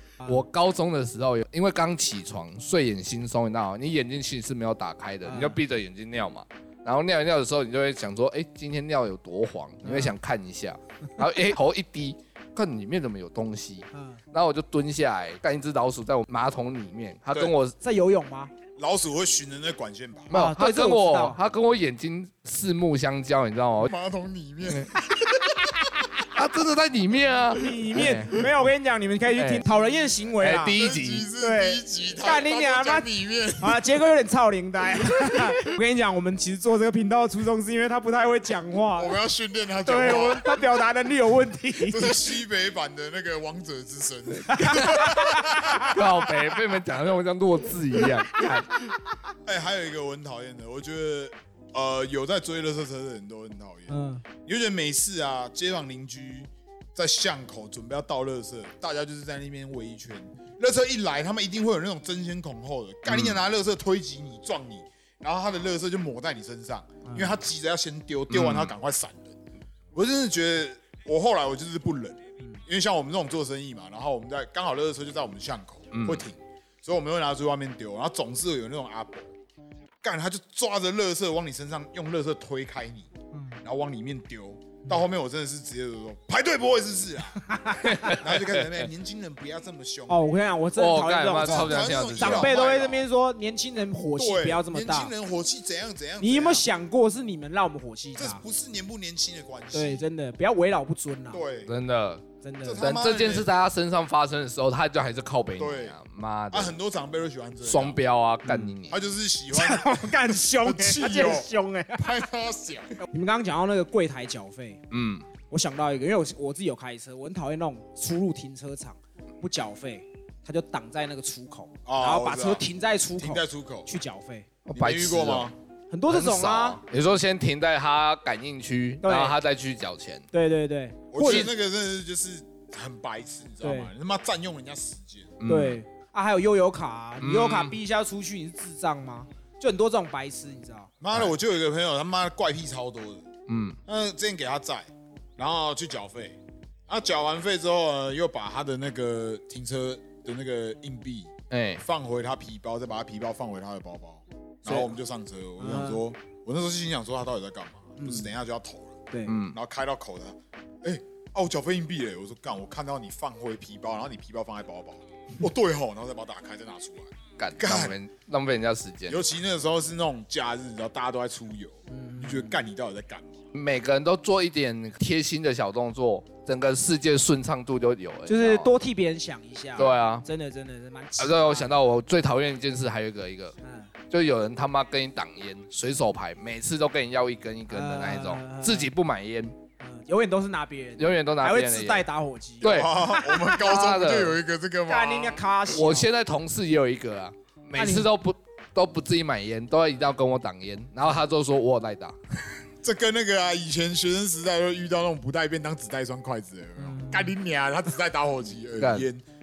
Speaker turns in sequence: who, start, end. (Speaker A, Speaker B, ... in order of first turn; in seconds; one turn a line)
Speaker A: 0.2-17.7
Speaker B: 5.2-5.6
Speaker B: 9.8-10.1
Speaker B: 13.9-14.2
Speaker B: 17.8-18.5
Speaker C: 18.8-20.3
Speaker B: 20.3-21.4
Speaker A: 20.3-23.9
Speaker C: 23.8-26.1
Speaker A: 26.2-28.5
Speaker B: 27.6-30.8
Speaker A: 29.3-29.6
Speaker A: 30.4-31.3
Speaker C: 30.7-33.9
Speaker B: 31.4-33.1
Speaker B: 33.6-39.2
Speaker C: 35.2-35.5
Speaker C: 38.9-40.6
Speaker B: 39.8-42.3
Speaker C: 41.8-46.6
Speaker B: 44.5-46.0
Speaker A: 45.7-48.7
Speaker C: 48.9-69.3
Speaker B: 53.9-54.2
Speaker A: 63.1-63.4
Speaker B: 67.0-67.4
Speaker A: 68.3-68.7
Speaker C: 69.9-79.3
Speaker A: 75.9-76.2
Speaker C: 80.0-90.2
Speaker B: 83.3-83.6
Speaker B: 87.4-88.1
Speaker A: 87.8-88.9
Speaker B: 90.1-95.1
Speaker A: 90.8-92.5
Speaker C: 91.4-93.1
Speaker C: 94.2-96.7
Speaker B: 96.2-98.4
Speaker C: 98.2-100.1
Speaker B: 99.7-101.4
Speaker C: 101.3-101.7
Speaker A: 101.7-102.2
Speaker B: 102.4-102.9
Speaker C: 102.6-103.5
Speaker A: 102.8-106.7
Speaker C: 105.6-105.9
Speaker C: 106.5-108.0
Speaker A: 107.6-109.0
Speaker B: 108.4-108.7
Speaker C: 108.9-113.0
Speaker B: 109.5-112.2
Speaker B: 113.1-114.8
Speaker A: 114.9-115.2
Speaker B: 115.5-124.5
Speaker C: 121.8-123.9
Speaker A: 124.7-125.5
Speaker C: 124.7-125.5
Speaker B: 125.9-126.8
Speaker A: 126.1-130.2
Speaker B: 129.0-129.4
Speaker B: 130.3-131.5
Speaker C: 131.1-135.3
Speaker A: 131.2-131.5
Speaker B: 133.6-133.9
Speaker A: 135.4-135.8
Speaker B: 135.4-140.9
Speaker A: 137.2-137.7
Speaker C: 141.0-143.2
Speaker A: 143.5-143.8
Speaker C: 143.9-167.9
Speaker A: 151.5-151.8
Speaker B: 154.7-154.9
Speaker B: 155.6-156.0
Speaker B: 158.0-158.3
Speaker A: 159.3-159.6
Speaker A: 167.4-169.2
Speaker C: 169.1-173.4
Speaker B: 171.9-172.6
Speaker A: 173.5-178.7
Speaker B: 178.3-181.8
Speaker A: 179.8-180.2
Speaker A: 181.2-183.5
Speaker B: 183.6-183.9
Speaker A: 184.1-189.5
Speaker B: 187.7-188.9
Speaker B: 189.8-193.6
Speaker A: 191.0-192.1
Speaker A: 192.6-194.4
Speaker C: 192.6-195.4
Speaker B: 194.8-196.1
Speaker A: 195.7-202.6
Speaker B: 197.8-198.1
Speaker C: 202.8-209.2
Speaker B: 206.8-207.3
Speaker A: 208.8-209.1